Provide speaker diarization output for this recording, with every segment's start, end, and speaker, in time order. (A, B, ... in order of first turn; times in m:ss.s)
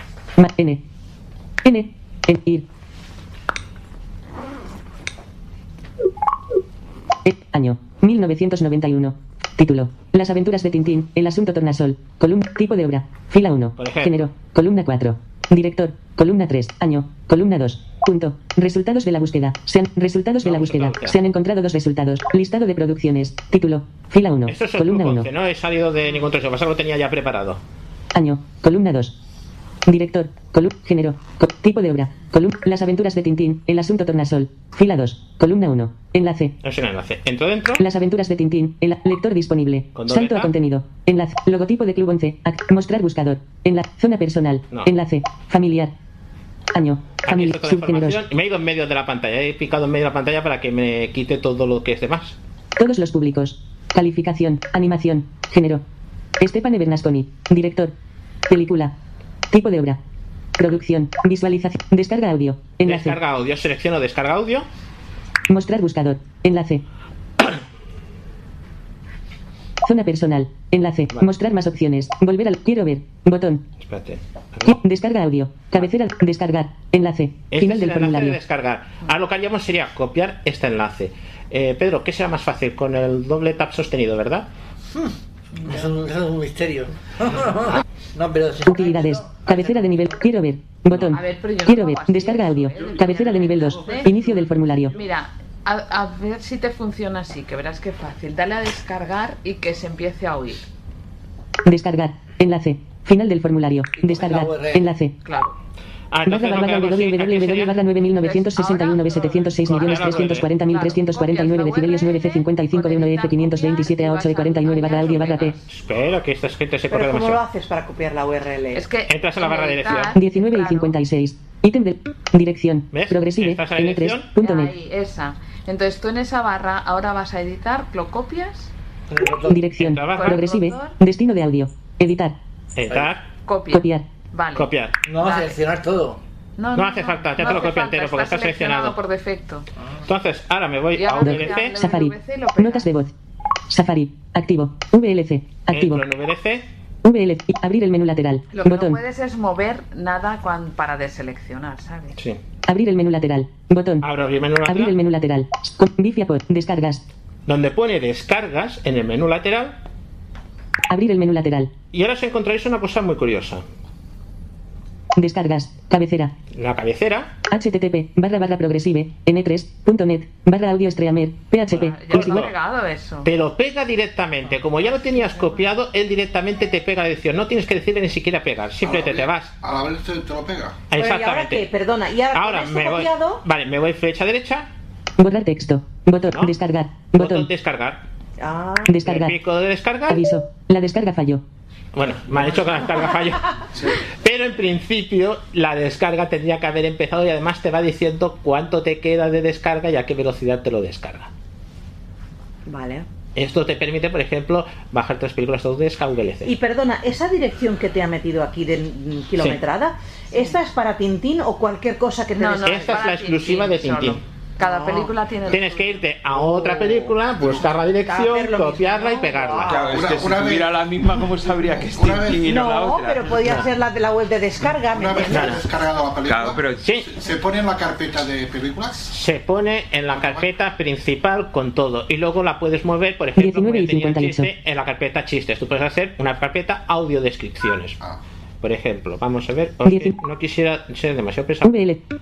0:00.4-0:00.8 A
0:01.6-0:02.6 A
0:07.2-0:25.3 A
0:13.8-0:14.3 B
0:20.4-0:21.2 B
0:24.5-0:27.6 B
0:28.1-0:29.1 A
0:29.9-0:36.5 A
0:36.6-0:37.8 B
0:37.8-0:45.9 A
0:39.9-0:40.5 B
0:46.7-0:48.2 A
0:47.2-0:52.4 B
0:52.8-0:55.8 A
0:56.4-0:57.9 A
0:58.5-0:58.9 A
0:59.5-1:00.0 A
1:00.6-1:03.2 A
1:02.8-1:04.7 B
1:05.5-1:06.8 A
1:09.8-1:13.6 A
1:13.8-1:14.8 B
1:14.6-1:18.4 A
1:17.5-1:24.5 B
1:24.9-1:29.5 C
1:28.6-1:35.0 A
1:30.9-1:31.2 B
1:31.1-1:34.2 D
1:34.9-1:40.6 D
1:41.6-1:45.2 A
1:44.0-1:44.9 C
1:45.2-1:45.5 D
1:46.1-1:47.7 B
1:46.2-1:55.6 A
1:48.0-1:55.6 D
1:49.7-1:50.5 B
1:55.7-1:57.4 B
1:56.9-1:58.9 E
1:58.7-2:01.0 D
1:59.1-2:00.1 B
2:00.1-2:04.7 A
2:02.9-2:04.3 B
2:04.4-2:08.7 D
2:09.1-2:09.6 C
2:09.5-2:12.4 A
2:09.8-2:10.4 B
2:10.1-2:11.0 D
2:12.8-2:13.2 B
2:13.4-2:15.5 D
2:13.7-2:14.1 A
2:14.6-2:14.9 B
2:15.0-2:16.2 C
2:16.6-2:19.7 D
2:16.7-2:19.0 B
2:20.0-2:21.8 B
2:20.9-2:22.9 D
2:21.1-2:23.1 A
2:23.7-2:26.0 A
2:25.7-2:26.6 B
2:27.0-2:29.0 A
2:28.5-2:32.2 D
2:32.6-2:34.0 A
2:34.0-2:34.9 B
2:34.6-2:37.0 A
2:37.5-2:39.8 B
2:40.9-2:41.7 A
2:41.9-2:43.6 B
2:45.2-2:46.3 A
2:46.5-2:47.3 B
2:47.5-2:52.5 A
2:51.7-2:53.3 D
2:52.1-2:52.5 B
2:53.2-2:59.5 B
2:54.8-2:55.6 D
2:58.8-3:00.9 F
3:00.9-3:01.6 B
3:00.9-3:03.4 E
3:02.3-3:04.7 B
3:05.2-3:07.5 A
3:06.3-3:06.5 B
3:07.1-3:08.0 B
3:08.4-3:09.0 E
3:08.8-3:09.4 A
3:09.0-3:10.2 B
3:10.1-3:11.4 A
3:11.9-3:13.5 B
3:14.0-3:21.3 B
3:22.7-3:23.0 E
3:23.4-3:26.5 B
3:26.4-3:33.0 E
3:32.4-3:36.0 D
3:32.6-3:34.2 B
3:34.6-3:35.1 E
3:35.5-3:39.8 B
3:38.0-3:39.9 E
3:39.6-3:43.6 G
3:39.8-3:40.8 F
3:41.9-3:42.6 F
3:42.4-3:45.6 E
3:44.8-3:49.0 F
3:45.3-3:45.6 B
3:46.2-3:46.8 G
3:46.8-3:47.1 B
3:49.1-3:58.0 B
3:50.1-3:50.4 F
3:53.4-3:54.5 A
3:58.6-4:01.8 B
3:59.8-4:00.2 A
4:01.6-4:02.0 A